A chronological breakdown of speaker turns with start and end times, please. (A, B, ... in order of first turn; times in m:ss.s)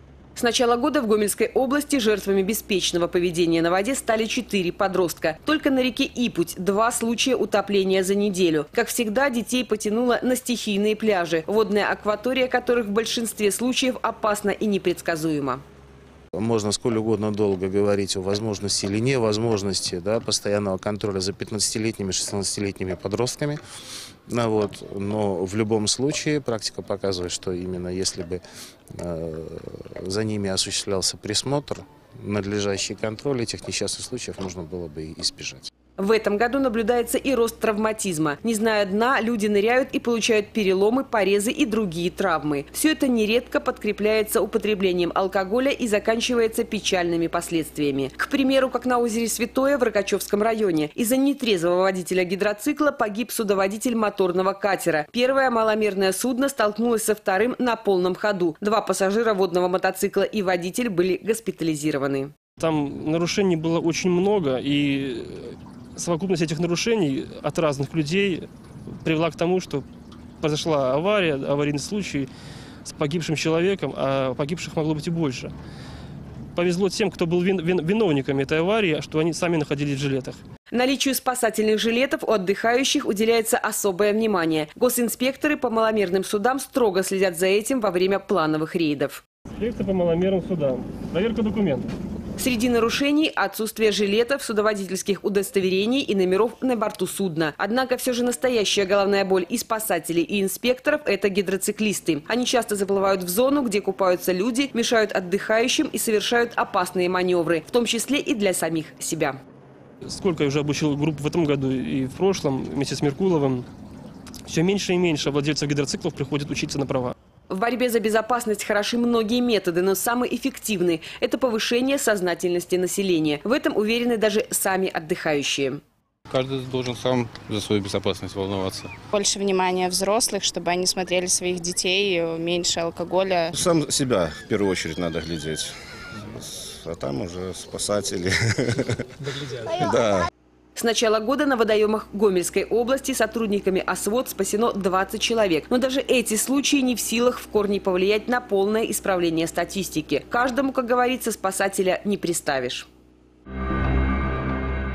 0:00.4-0:15.6 A
0:16.3-0:23.6 B
0:24.3-0:28.4 B
0:28.9-0:35.7 B
0:36.0-1:02.3 A
1:02.6-1:08.5 C
1:09.0-1:09.8 C
1:10.4-1:12.3 C
1:12.8-1:15.5 C
1:16.6-1:20.4 C
1:20.7-1:29.2 A
1:29.6-1:31.9 C
1:32.4-1:49.4 A
1:50.1-1:53.7 C
1:54.5-1:57.2 C
1:57.5-2:05.8 A
2:06.3-2:08.9 D
2:09.1-2:13.5 E
2:13.5-2:15.7 F
2:16.3-2:19.0 F
2:19.8-2:20.3 F
2:20.8-2:32.9 A